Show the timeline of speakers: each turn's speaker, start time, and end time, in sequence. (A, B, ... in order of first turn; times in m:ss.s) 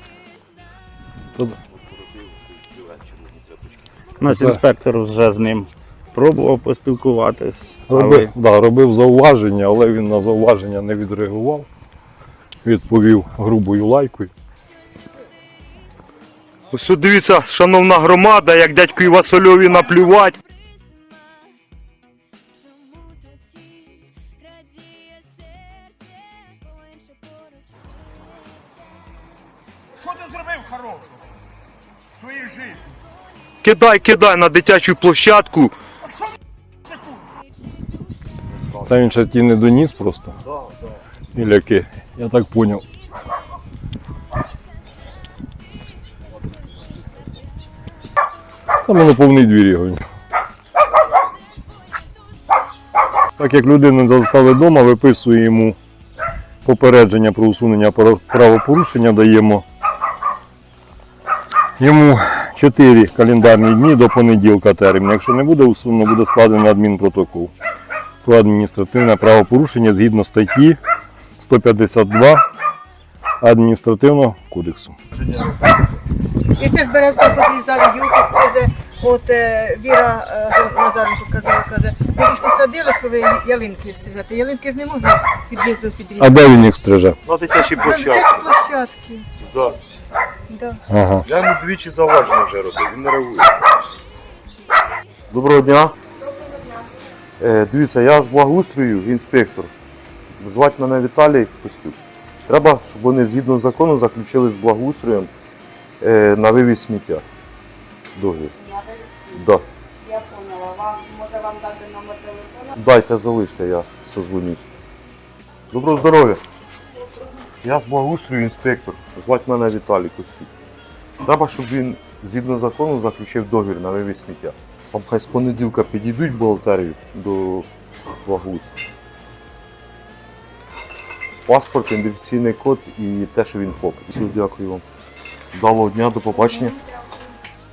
0:04.2-0:08.3 A
0:04.3-0:04.6 B
0:07.9-0:11.7 B
0:12.6-0:14.3 B
0:16.7-0:20.4 C
0:33.6-0:35.7 C
0:38.8-0:40.3 B
0:41.4-0:42.8 B
0:48.8-0:50.0 B
0:53.4-0:55.8 B
0:56.6-0:59.6 B
1:01.8-1:07.5 B
1:08.2-1:10.8 B
1:11.4-1:12.4 B
1:13.4-1:15.0 B
1:16.6-1:26.5 D
1:26.2-1:27.2 B
1:27.3-1:28.4 E
1:27.5-1:29.3 D
1:29.4-1:29.8 E
1:30.5-1:30.8 D
1:30.9-1:31.3 B
1:31.3-1:33.5 E
1:35.3-1:36.0 E
1:36.3-1:36.8 F
1:37.4-1:39.7 E
1:40.4-1:45.3 E
1:46.0-1:47.2 E
1:48.2-1:48.6 E
1:48.5-1:52.8 F
1:49.3-1:49.6 E
1:52.8-1:54.7 E
1:55.7-1:56.4 E
1:57.6-2:00.5 E
2:01.2-2:07.7 E
2:08.2-2:08.8 E
2:11.5-2:14.8 E
2:15.5-2:16.8 E